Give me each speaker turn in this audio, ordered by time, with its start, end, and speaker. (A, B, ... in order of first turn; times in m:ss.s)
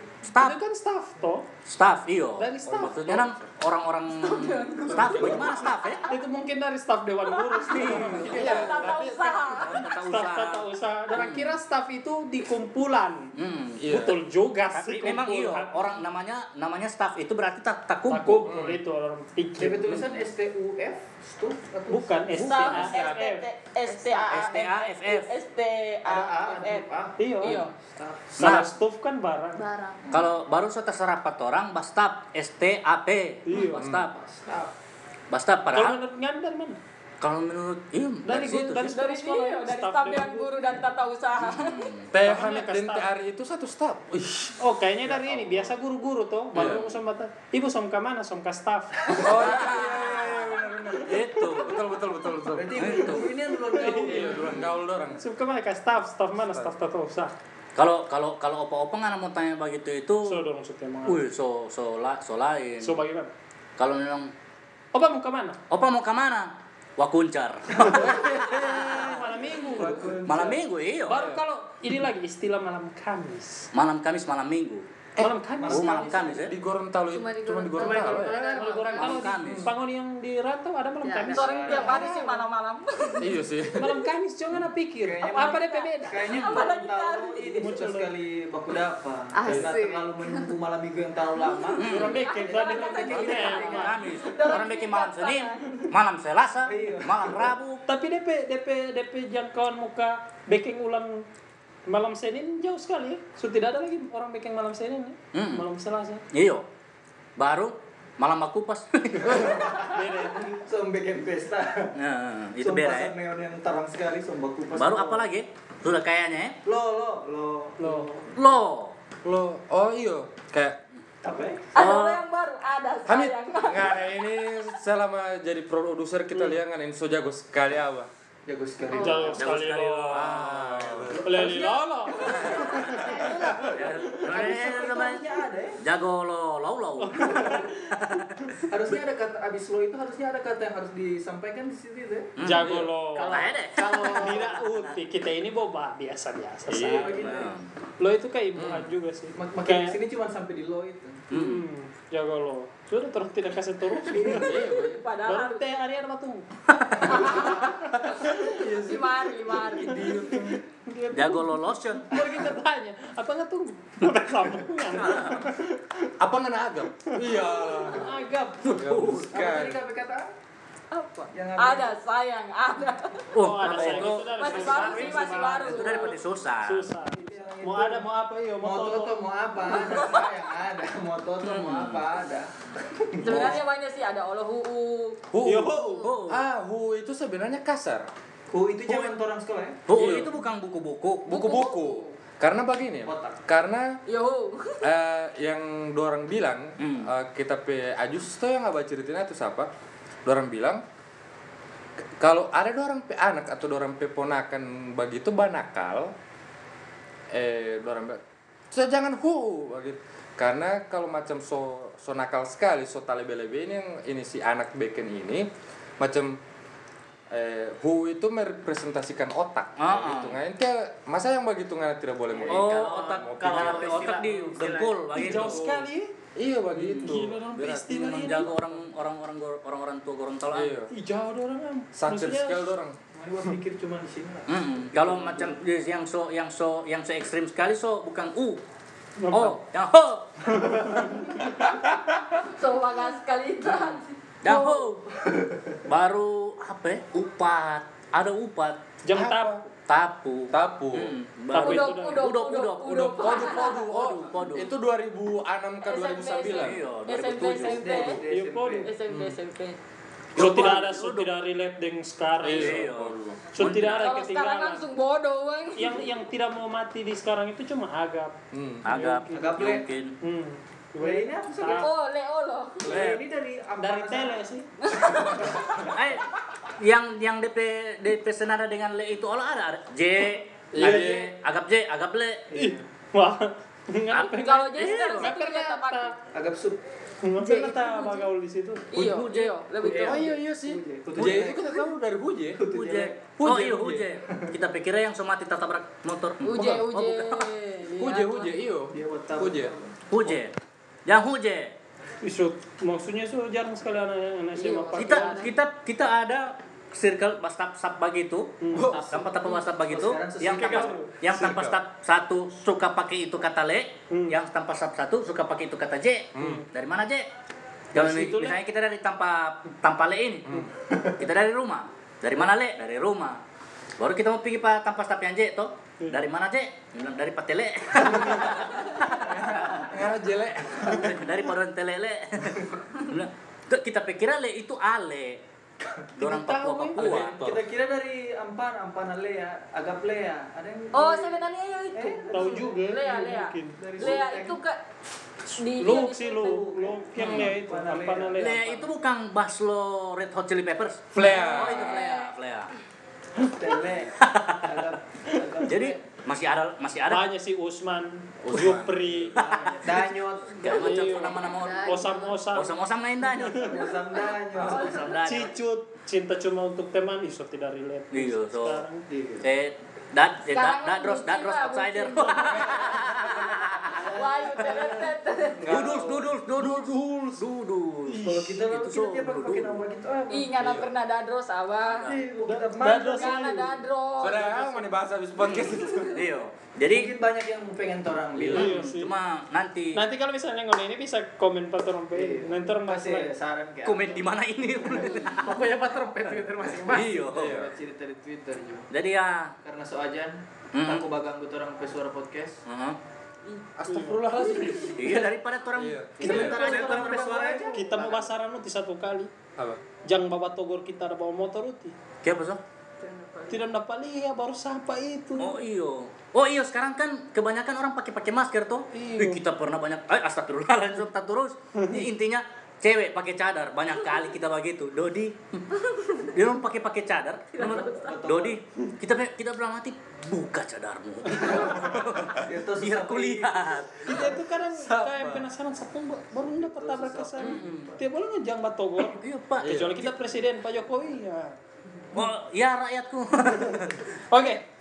0:00.2-0:00.6 A
0:00.4-0:01.5 B
0:01.6-0:06.1 A
0:02.4-0:03.3 B
0:02.6-0:03.4 C
0:04.2-0:06.2 D
0:04.9-0:05.5 C
0:06.1-0:08.7 B
0:07.3-0:09.7 D
0:07.7-0:08.7 A
0:08.2-0:09.6 C
0:09.5-0:11.6 A
0:10.0-0:13.3 B
0:13.4-0:13.8 A
0:13.8-0:14.2 C
0:13.9-0:16.0 B
0:14.7-0:18.5 A
0:18.1-0:20.0 B
0:18.4-0:18.8 C
0:19.6-0:22.8 E
0:19.9-0:20.2 A
0:21.9-0:23.4 B
0:22.3-0:26.9 D
0:22.4-0:23.1 A
0:23.8-0:24.4 F
0:24.2-0:24.5 G
0:24.3-0:25.3 A
0:26.0-0:27.2 G
0:27.2-0:27.6 B
0:27.4-0:27.7 D
0:27.4-0:28.2 E
0:28.4-0:29.6 B
0:28.4-0:28.7 A
0:29.5-0:30.2 F
0:30.1-0:34.2 A
0:33.4-0:33.8 B
0:33.7-0:34.1 C
0:35.3-0:36.0 A
0:35.7-0:36.8 B
0:37.2-0:38.9 A
0:38.2-0:40.6 B
0:38.8-0:41.9 D
0:41.4-0:42.0 A
0:42.1-0:45.7 C
0:42.2-0:43.0 B
0:44.6-0:50.9 B
0:46.5-0:46.9 C
0:49.2-0:53.0 C
0:49.2-0:51.8 A
0:52.5-0:54.7 E
0:52.8-0:53.3 A
0:53.7-0:54.3 B
0:53.8-0:55.2 C
0:55.2-0:57.3 B
0:56.4-0:56.8 C
0:57.8-1:00.4 A
1:00.2-1:01.2 B
1:01.0-1:03.0 A
1:02.8-1:03.3 B
1:03.8-1:04.3 A
1:04.9-1:05.6 B
1:05.7-1:09.2 A
1:07.9-1:09.1 C
1:08.5-1:10.1 B
1:09.7-1:10.6 E
1:10.2-1:11.2 A
1:11.0-1:13.7 B
1:11.1-1:11.4 C
1:13.7-1:14.8 A
1:15.2-1:16.1 B
1:15.6-1:16.4 E
1:15.7-1:16.5 A
1:16.3-1:19.7 C
1:17.1-1:19.2 F
1:18.2-1:22.4 B
1:18.9-1:19.6 A
1:21.0-1:22.0 F
1:21.3-1:23.3 D
1:21.3-1:22.2 E
1:23.2-1:23.9 C
1:23.8-1:26.2 B
1:25.0-1:34.1 E
1:25.2-1:27.6 D
1:27.6-1:28.1 B
1:29.3-1:30.6 F
1:29.5-1:29.7 C
1:31.5-1:31.8 F
1:31.8-1:32.2 A
1:31.8-1:34.0 B
1:32.0-1:35.8 D
1:32.9-1:37.8 A
1:36.6-1:37.5 E
1:37.8-1:41.2 B
1:41.9-1:46.2 B
1:45.3-1:45.6 A
1:46.3-1:46.6 A
1:47.4-1:49.7 A
1:49.2-1:51.9 E
1:49.8-1:50.5 B
1:52.0-1:53.1 A
1:52.6-1:55.3 E
1:54.7-1:56.6 A
1:56.6-1:58.4 E
1:57.8-1:58.1 B
1:58.4-1:58.9 A
1:59.2-2:00.8 C
2:01.2-2:01.7 E
2:01.7-2:04.1 D
2:01.8-2:02.2 A
2:03.0-2:08.1 C
2:08.4-2:09.4 E
2:08.9-2:09.3 F
2:08.9-2:10.4 B
2:09.4-2:11.1 A
2:10.1-2:11.3 C
2:11.2-2:13.7 B
2:11.2-2:15.8 E
2:12.3-2:13.7 D
2:13.7-2:18.5 A
2:17.0-2:17.9 B
2:18.7-2:22.3 E
2:22.4-2:24.3 A
2:22.4-2:23.3 B
2:22.6-2:22.9 C
2:23.1-2:24.6 G
2:23.2-2:24.2 E
2:24.0-2:27.4 B
2:26.7-2:27.2 C
2:26.8-2:27.5 E
2:27.2-2:27.7 A
2:28.0-2:30.0 B
2:28.6-2:28.9 C
2:29.3-2:31.2 E
2:31.3-2:31.6 A
2:31.3-2:34.5 B
2:34.0-2:34.6 E
2:34.1-2:35.8 D
2:34.3-2:35.0 C
2:35.2-2:36.4 B
2:36.7-2:37.2 A
2:37.0-2:40.3 D
2:37.4-2:38.5 B
2:38.4-2:39.1 C
2:39.6-2:40.3 C
2:39.9-2:45.8 B
2:41.1-2:42.0 A
2:44.9-2:45.5 A
2:46.2-2:48.1 C
2:47.1-2:48.8 B
2:48.6-2:49.3 A
2:48.7-2:49.8 C
2:49.3-2:50.3 E
2:50.9-2:56.2 D
2:51.3-2:51.9 E
2:53.3-2:56.9 A
2:53.4-2:59.2 B
2:57.1-2:58.1 E
2:58.6-3:03.5 E
2:59.9-3:00.3 D
3:01.4-3:02.0 A
3:03.2-3:03.6 C
3:03.2-3:05.2 D
3:05.3-3:08.1 C
3:05.4-3:06.1 B
3:05.8-3:06.4 A
3:08.5-3:09.8 E
3:08.8-3:09.1 A
3:09.9-3:11.5 A
3:09.9-3:10.3 C
3:11.3-3:14.0 C
3:11.3-3:12.1 D
3:13.0-3:13.4 E
3:14.1-3:14.8 D
3:14.8-3:19.7 C
3:16.8-3:17.1 A
3:20.2-3:20.8 C
3:22.2-3:26.1 C
3:27.3-3:35.5 C
3:36.0-3:36.4 C
3:37.3-3:44.0 C
3:39.8-3:40.4 A
3:42.4-3:45.3 G
3:42.5-3:45.6 A
3:45.1-3:46.1 B
3:45.3-3:48.0 C
3:46.7-3:48.8 B
3:47.6-3:50.7 A
3:50.5-3:50.9 C
3:50.9-3:52.7 B
3:51.9-3:53.0 C
3:53.1-3:55.6 E
3:54.5-3:58.6 A
3:59.2-3:59.6 B
3:59.3-4:00.5 A
4:00.6-4:01.3 B
4:02.4-4:04.8 D
4:03.6-4:05.0 A
4:05.8-4:08.8 A
4:09.0-4:09.6 B
4:09.1-4:09.6 C
4:09.9-4:14.7 A
4:10.5-4:11.2 C
4:11.5-4:12.3 B
4:11.5-4:13.8 D
4:12.9-4:16.8 C
4:15.8-4:18.2 D
4:16.5-4:18.2 A
4:17.6-4:18.9 E
4:18.3-4:18.9 B
4:18.8-4:19.8 D
4:19.1-4:19.4 C
4:20.3-4:21.3 A
4:20.3-4:22.8 B
4:22.4-4:23.4 C
4:22.4-4:24.2 A
4:23.5-4:24.8 B
4:23.7-4:26.0 D
4:25.8-4:29.7 B
4:28.5-4:28.9 C
4:28.8-4:30.1 A
4:29.3-4:29.9 E
4:30.2-4:31.9 B
4:31.0-4:31.9 E
4:31.7-4:32.9 D
4:32.8-4:34.4 E
4:32.8-4:33.2 A
4:33.8-4:34.7 B
4:34.8-4:35.8 D
4:35.8-4:36.2 A
4:36.8-4:42.5 A
4:40.7-4:41.3 C
4:40.8-4:41.2 B
4:42.5-4:42.8 E
4:42.5-4:46.1 B
4:44.1-4:45.3 A
4:44.2-4:46.1 D
4:46.3-4:46.8 E
4:47.2-4:48.9 B
4:47.4-4:48.2 D
4:48.9-4:50.3 D
4:48.9-4:49.5 A
4:49.8-4:51.8 E
4:50.0-4:52.6 C
4:51.2-4:51.5 A
4:52.5-4:54.2 E
4:52.7-4:57.5 A
4:53.4-4:53.8 C
4:56.4-4:58.6 D
4:58.0-4:59.7 C
4:58.9-4:59.9 E
5:00.1-5:00.5 A
5:01.0-5:01.8 A
5:02.2-5:05.5 B
5:04.5-5:05.5 F
5:05.0-5:08.5 A
5:08.6-5:09.0 B
5:08.7-5:11.1 E
5:09.1-5:17.3 A
5:11.2-5:11.8 C
5:14.1-5:14.4 B
5:16.3-5:16.6 C
5:16.4-5:16.6 B
5:17.9-5:18.6 B
5:17.9-5:20.5 A
5:20.4-5:20.7 C
5:21.2-5:23.4 A
5:24.0-5:29.8 A
5:26.0-5:26.2 B
5:28.0-5:28.5 C
5:29.2-5:30.0 E
5:29.8-5:31.2 C
5:30.8-5:35.4 A
5:36.2-5:37.3 B
5:36.2-5:37.6 A
5:37.0-5:42.9 E
5:40.9-5:44.8 D
5:42.3-5:44.0 B
5:43.7-5:44.6 E
5:45.5-5:46.8 D
5:45.8-5:48.9 B
5:46.4-5:48.5 E
5:47.1-5:47.6 A
5:48.4-5:52.7 A
5:51.1-5:52.0 C
5:51.2-5:52.3 D
5:53.4-5:56.0 E
5:54.2-5:54.7 A
5:55.6-5:57.3 A
5:57.1-6:00.1 B
5:58.4-5:59.7 C
5:59.4-5:59.6 A
5:59.8-6:00.6 E
6:00.6-6:03.9 A
6:00.6-6:02.7 B
6:01.2-6:02.5 F
6:03.3-6:03.7 B
6:03.5-6:05.2 E
6:04.5-6:05.5 A
6:04.6-6:05.4 D
6:05.1-6:09.0 B
6:08.1-6:08.8 A
6:09.1-6:09.4 E
6:09.4-6:14.8 A
6:10.5-6:13.0 D
6:13.9-6:15.1 E
6:14.0-6:15.7 D
6:15.6-6:17.4 C
6:15.7-6:19.8 A
6:18.1-6:18.6 B
6:18.2-6:20.5 E
6:20.3-6:22.1 D
6:20.6-6:20.9 C
6:21.8-6:22.2 A
6:22.0-6:23.7 E
6:22.4-6:23.7 B
6:23.0-6:24.9 D
6:24.2-6:26.3 C
6:25.4-6:27.1 A
6:26.9-6:28.8 E
6:28.4-6:28.7 C
6:28.4-6:30.0 A
6:28.5-6:29.1 B
6:29.9-6:33.3 B
6:32.1-6:35.3 E
6:33.8-6:35.4 A
6:35.0-6:37.2 G
6:36.9-6:37.6 A
6:36.9-6:38.9 E
6:37.3-6:37.7 C
6:38.9-6:39.5 A
6:39.6-6:42.6 E
6:40.7-6:41.0 A
6:42.7-6:43.0 A
6:43.8-6:46.7 C
6:43.9-6:44.6 B
6:44.3-6:45.0 D
6:44.8-6:47.4 A
6:46.2-6:47.8 E
6:46.4-6:48.3 G
6:47.6-6:49.3 B
6:49.6-6:49.8 C
6:50.0-6:51.9 B
6:52.2-6:52.6 A
6:53.0-6:53.7 D
6:53.5-6:55.6 B
6:55.4-7:05.6 A
6:58.9-6:59.4 B
7:05.8-7:06.3 D
7:06.2-7:14.2 A
7:07.5-7:08.2 D
7:07.6-7:08.6 E
7:11.4-7:14.4 E
7:14.0-7:21.6 B
7:14.7-7:15.4 C
7:16.6-7:18.0 E
7:17.4-7:17.9 A
7:19.0-7:20.1 A
7:22.1-7:24.0 A
7:24.3-7:24.6 B